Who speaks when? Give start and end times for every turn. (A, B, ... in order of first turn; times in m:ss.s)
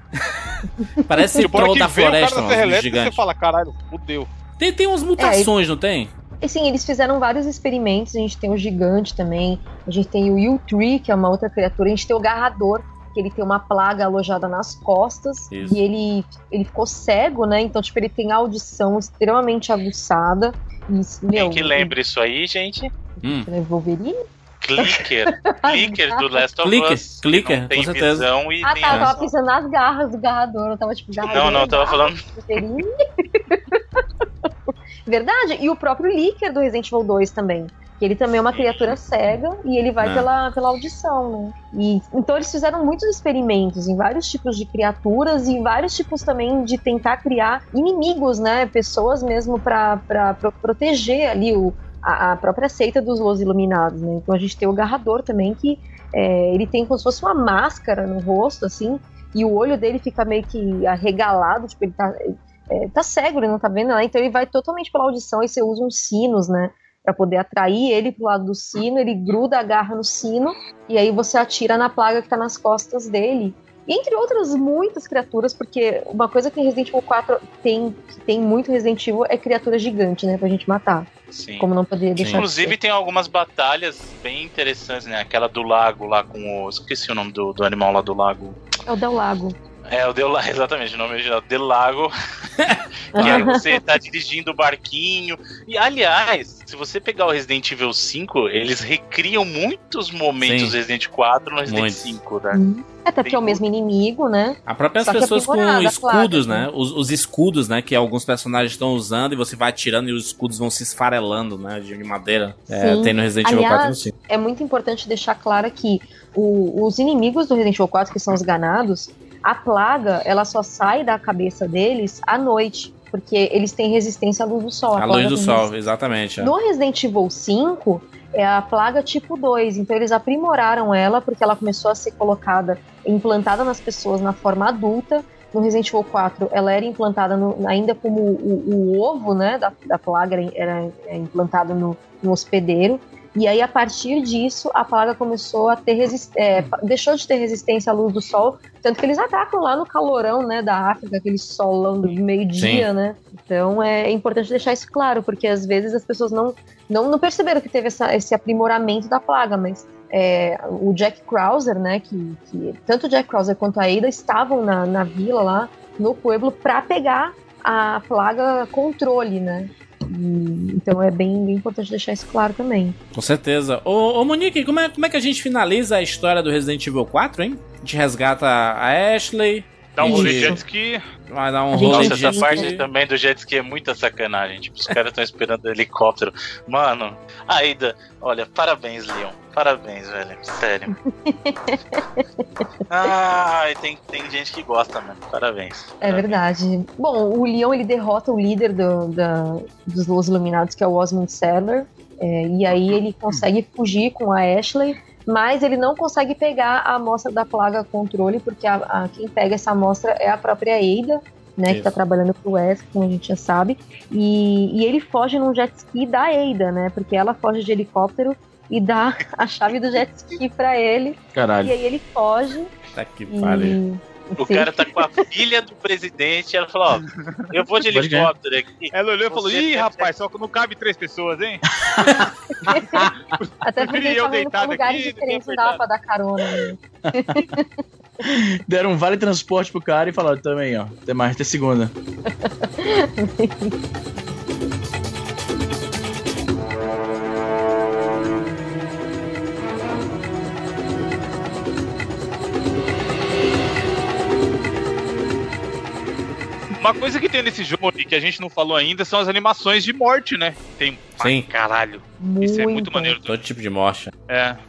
0:00.2-0:03.2 A
0:01.0-0:01.4 B
0:01.4-0:04.3 C
0:04.6-0:06.1 A
0:05.2-0:05.5 B
0:06.4-0:22.0 B
0:15.5-0:15.8 A
0:21.3-0:22.9 D
0:23.2-0:24.2 B
0:23.2-0:23.5 A
0:24.6-0:29.3 D
0:25.6-0:26.2 B
0:26.6-0:28.3 A
0:28.6-0:33.8 B
0:31.2-0:32.3 D
0:35.1-1:22.8 B
0:38.5-0:39.0 D
0:40.0-0:40.3 A
1:21.3-1:21.7 D
1:22.2-1:22.4 A
1:22.3-1:28.6 D
1:28.9-1:29.6 B
1:29.9-1:32.1 D
1:32.6-1:33.5 A
1:33.2-1:33.8 B
1:33.2-1:42.6 D
1:40.4-1:40.8 A
1:41.7-1:42.2 A
1:42.5-1:46.7 B
1:43.2-1:43.6 D
1:44.7-1:54.1 A
1:52.7-2:05.7 B
2:05.0-2:06.5 A
2:06.4-2:53.0 B
2:32.6-2:32.9 A
2:53.2-3:00.6 A
2:59.9-3:01.0 C
3:00.0-3:00.6 B
3:01.3-3:02.8 A
3:01.7-3:02.6 B
3:01.8-3:10.9 D
3:11.1-3:12.4 B
3:12.9-3:16.3 D
3:16.0-3:42.7 B
3:22.7-3:23.4 E
3:31.7-3:32.0 A
3:41.4-3:41.8 E
3:43.0-3:43.8 A
3:43.3-3:44.7 B
3:44.4-3:50.1 D
3:47.9-3:48.3 E
3:48.9-3:51.6 C
3:51.8-3:53.1 E
3:52.7-3:53.0 B
3:53.6-3:57.7 B
3:53.8-3:55.8 C
3:57.1-3:57.4 E
3:58.4-4:01.9 E
4:02.3-4:03.7 B
4:16.8-4:23.3 C
4:21.2-4:21.5 A
4:22.2-4:23.2 B
4:23.2-4:24.1 A
4:24.3-4:24.6 C